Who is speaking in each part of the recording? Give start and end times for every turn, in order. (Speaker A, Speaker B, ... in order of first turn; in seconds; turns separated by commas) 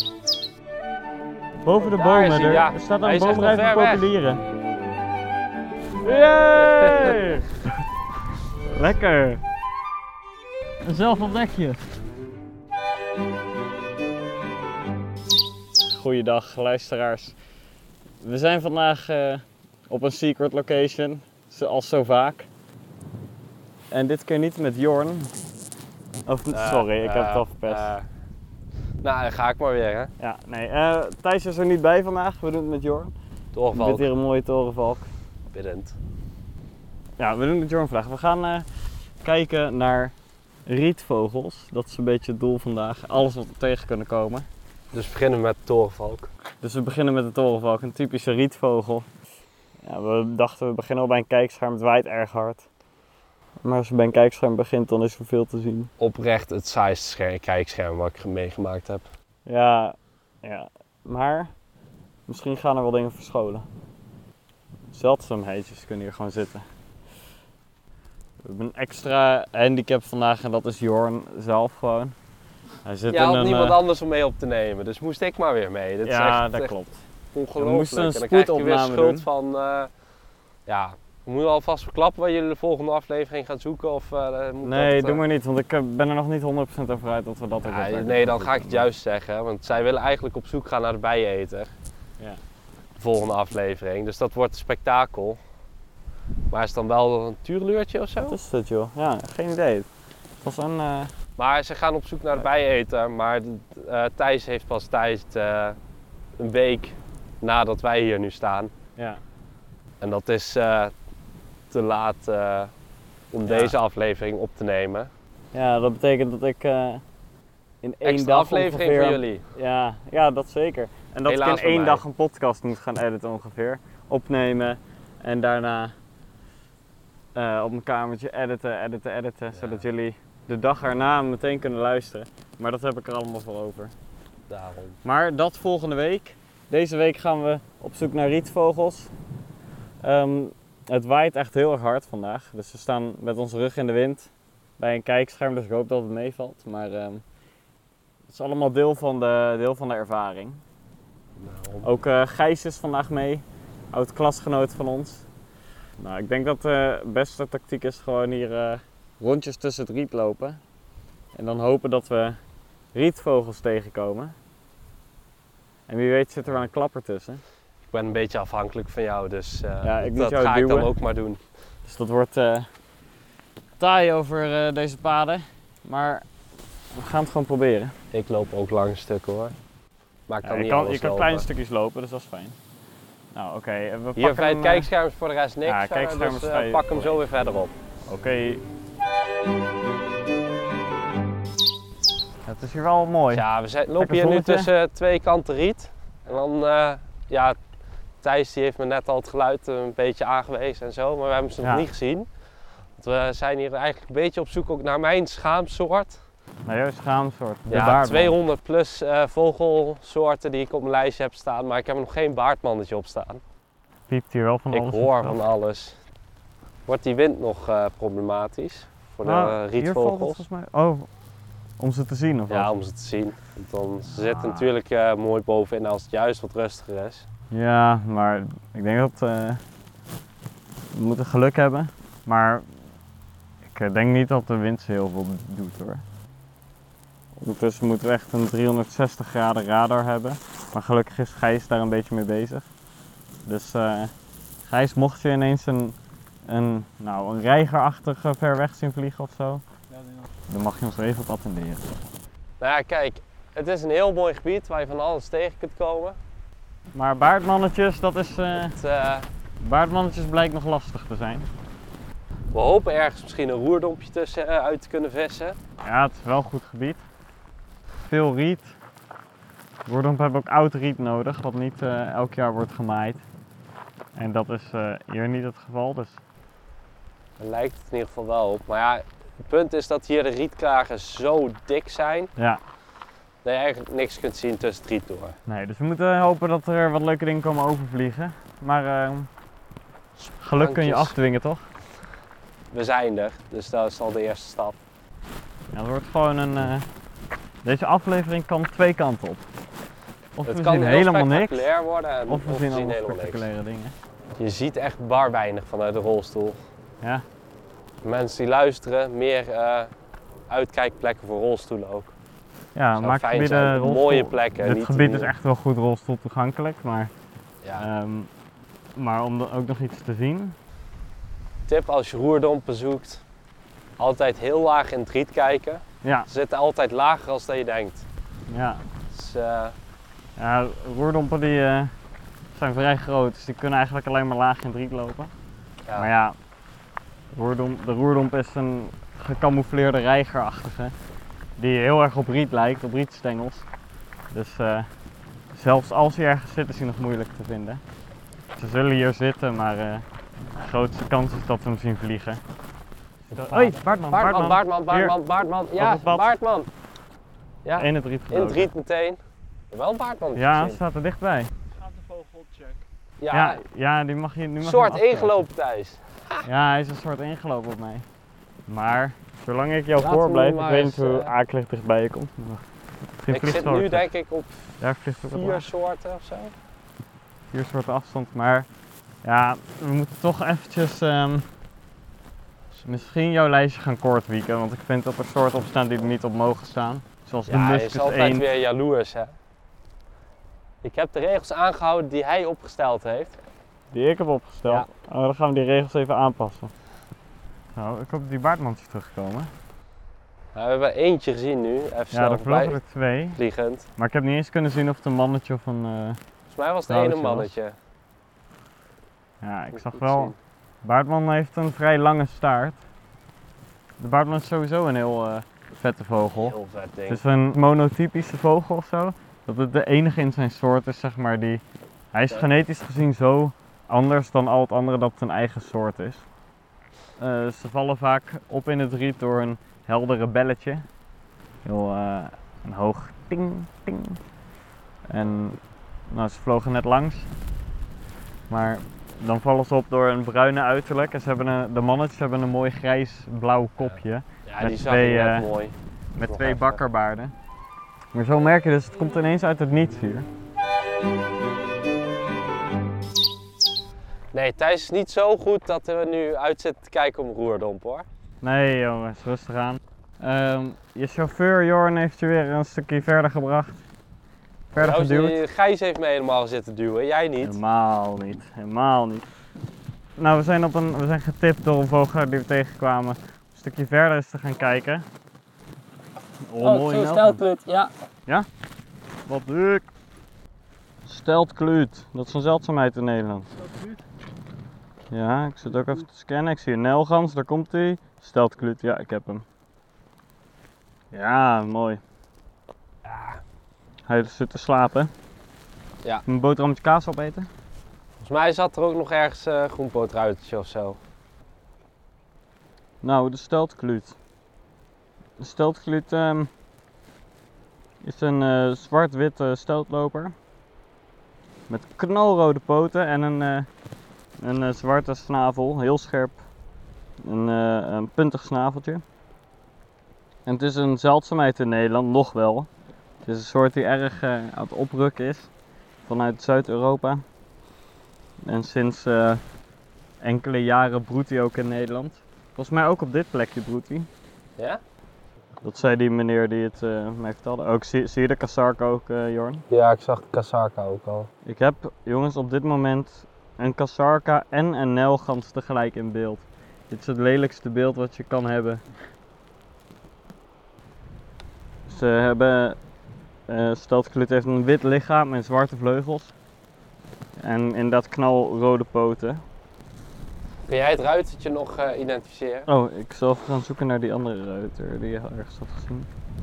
Speaker A: 1.6-4.4, Speaker B: 1.8-4.1, Speaker A: 6.0-7.6, Speaker B: 6.6-7.3, Speaker A: 8.7-9.4, Speaker A: 10.8-11.9, Speaker A: 15.8-17.4, Speaker A: 18.2-22.5, Speaker A: 23.9-25.3, Speaker A: 26.2-27.9, Speaker B: 26.5-28.1, Speaker B: 29.0-30.1, Speaker A: 30.2-33.1, Speaker B: 33.5-34.1, Speaker A: 33.7-35.1, Speaker B: 35.5-36.0, Speaker A: 37.2-40.1, Speaker A: 40.6-44.5, Speaker B: 44.9-46.3, Speaker A: 46.6-49.1, Speaker A: 49.8-52.6, Speaker A: 53.6-55.9, Speaker B: 56.0-59.0, Speaker A: 59.5-61.5, Speaker A: 62.3-63.6, Speaker A: 64.9-66.6, Speaker A: 68.4-72.1, Speaker A: 72.8-73.8, Speaker B: 73.1-76.7, Speaker A: 76.0-77.0, Speaker B: 77.3-79.9, Speaker A: 77.6-79.2, Speaker B: 80.7-85.2, Speaker A: 84.6-88.8, Speaker B: 87.6-91.7, Speaker B: 93.0-95.4, Speaker B: 96.5-98.4, Speaker A: 98.2-99.9, Speaker A: 100.4-101.1, Speaker B: 101.4-105.8, Speaker B: 106.4-108.7, Speaker B: 110.0-110.9, Speaker B: 111.7-112.7, Speaker B: 113.3-115.1, Speaker A: 113.5-113.7, Speaker A: 115.5-117.0, Speaker A: 117.8-125.9, Speaker B: 118.0-119.4, Speaker B: 121.2-122.0, Speaker A: 127.3-133.9, Speaker B: 129.5-129.8, Speaker B: 134.5-135.0, Speaker A: 135.0-139.1, Speaker A: 140.0-147.2, Speaker A: 148.3-150.6, Speaker B: 151.4-151.9, Speaker A: 151.8-155.2, Speaker A: 156.0-160.6, Speaker A: 161.3-162.4, Speaker A: 162.9-164.3, Speaker A: 165.9-167.4, Speaker B: 167.9-171.4, Speaker A: 169.8-170.9, Speaker A: 171.8-172.7, Speaker A: 173.8-176.2, Speaker A: 176.9-177.9, Speaker B: 178.1-179.5, Speaker B: 180.3-181.4, Speaker A: 180.4-182.6, Speaker A: 183.3-184.9, Speaker B: 184.2-187.7, Speaker A: 185.7-187.2, Speaker A: 188.1-188.6, Speaker A: 192.4-193.4, Speaker B: 193.3-197.6, Speaker A: 194.0-194.7, Speaker B: 198.2-202.3, Speaker B: 202.9-206.2, Speaker A: 206.7-208.3, Speaker B: 207.7-213.4, Speaker A: 214.1-215.4, Speaker B: 214.7-216.0, Speaker B: 216.9-220.4, Speaker A: 219.2-221.1, Speaker A: 221.8-222.7, Speaker B: 222.5-227.3, Speaker A: 224.1-224.7, Speaker A: 227.5-229.6, Speaker A: 230.9-232.7, Speaker A: 233.7-236.0, Speaker A: 237.4-242.7, Speaker A: 243.4-244.1, Speaker A: 244.7-245.9, Speaker A: 246.5-249.6, Speaker C: 249.9-250.3, Speaker A: 250.5-251.8, Speaker B: 252.6-256.2, Speaker A: 256.9-258.8, Speaker B: 258.6-259.3, Speaker A: 259.6-261.5, Speaker B: 262.5-265.6, Speaker A: 265.8-267.0, Speaker A: 268.1-268.7, Speaker A: 269.9-273.2, Speaker A: 274.1-276.2, Speaker B: 277.4-282.3, Speaker B: 283.4-285.4, Speaker A: 285.4-289.3, Speaker B: 290.2-291.1, Speaker A: 290.4-291.7, Speaker B: 292.7-294.8, Speaker A: 295.7-296.9, Speaker A: 297.6-299.4, Speaker A: 300.4-301.7, Speaker B: 300.4-303.4, Speaker A: 302.3-303.9, Speaker B: 304.4-306.6, Speaker B: 308.0-309.9, Speaker B: 310.5-312.1, Speaker A: 312.7-317.1, Speaker B: 312.9-315.3, Speaker B: 317.6-317.9, Speaker A: 317.8-318.3, Speaker A: 318.9-320.6, Speaker B: 321.7-323.2, Speaker B: 324.0-328.1, Speaker A: 326.0-326.3, Speaker A: 328.5-328.8, Speaker B: 329.1-329.8, Speaker A: 330.4-331.9, Speaker A: 332.5-335.3, Speaker A: 335.9-336.4, Speaker A: 337.3-340.9, Speaker A: 341.6-343.6, Speaker A: 344.3-344.9, Speaker A: 345.5-347.8, Speaker A: 348.6-350.0, Speaker A: 350.6-352.4, Speaker B: 353.3-356.7, Speaker A: 353.3-355.1, Speaker A: 355.8-356.2, Speaker B: 357.6-359.2, Speaker A: 357.8-358.7, Speaker B: 359.7-360.8, Speaker A: 360.4-361.5, Speaker C: 361.8-362.8, Speaker B: 363.2-363.6, Speaker A: 363.3-365.4, Speaker B: 364.6-366.4, Speaker A: 366.4-368.1, Speaker A: 368.7-372.6, Speaker B: 370.0-371.3, Speaker A: 373.2-374.1, Speaker B: 373.3-376.5, Speaker A: 374.8-375.7, Speaker A: 377.5-378.7, Speaker A: 379.2-381.5, Speaker B: 382.7-383.0, Speaker A: 382.8-388.4, Speaker B: 387.5-389.3, Speaker B: 390.8-393.4, Speaker A: 393.9-396.7, Speaker A: 397.7-399.5, Speaker B: 400.5-402.8, Speaker A: 402.1-403.4, Speaker B: 403.4-403.9, Speaker A: 404.0-406.2, Speaker B: 406.5-407.7, Speaker A: 406.9-407.5, Speaker A: 409.4-412.8, Speaker B: 409.7-410.3, Speaker A: 414.0-416.6, Speaker B: 416.4-417.2, Speaker A: 417.1-421.6, Speaker A: 422.1-426.2, Speaker A: 427.2-430.8, Speaker A: 431.6-434.2, Speaker A: 435.1-437.3, Speaker A: 438.5-445.5, Speaker B: 443.8-445.8, Speaker A: 446.1-447.3, Speaker B: 446.3-446.8, Speaker A: 448.1-450.3, Speaker B: 454.3-458.1, Speaker A: 458.4-463.8, Speaker A: 464.7-465.4, Speaker B: 464.8-467.6, Speaker A: 467.4-469.2, Speaker A: 470.2-475.1, Speaker A: 476.5-477.4, Speaker B: 476.6-477.9, Speaker A: 479.3-479.9, Speaker A: 481.1-483.5, Speaker C: 483.6-484.0, Speaker A: 485.1-489.4, Speaker A: 491.1-492.0, Speaker B: 493.0-493.4, Speaker A: 494.1-495.1, Speaker A: 496.2-497.5, Speaker B: 498.2-501.0, Speaker A: 503.0-504.2, Speaker A: 505.4-506.5, Speaker A: 508.0-510.3, Speaker A: 511.7-513.7, Speaker A: 514.4-516.4, Speaker A: 517.2-519.0, Speaker A: 520.5-522.7, Speaker A: 523.2-525.5, Speaker A: 526.0-527.2, Speaker A: 528.4-529.4, Speaker A: 530.2-534.1, Speaker A: 535.6-539.6, Speaker B: 539.7-541.3, Speaker A: 541.4-548.8, Speaker A: 551.9-552.8, Speaker A: 553.5-556.3, Speaker A: 557.4-559.4, Speaker B: 560.7-562.7, Speaker A: 562.7-566.1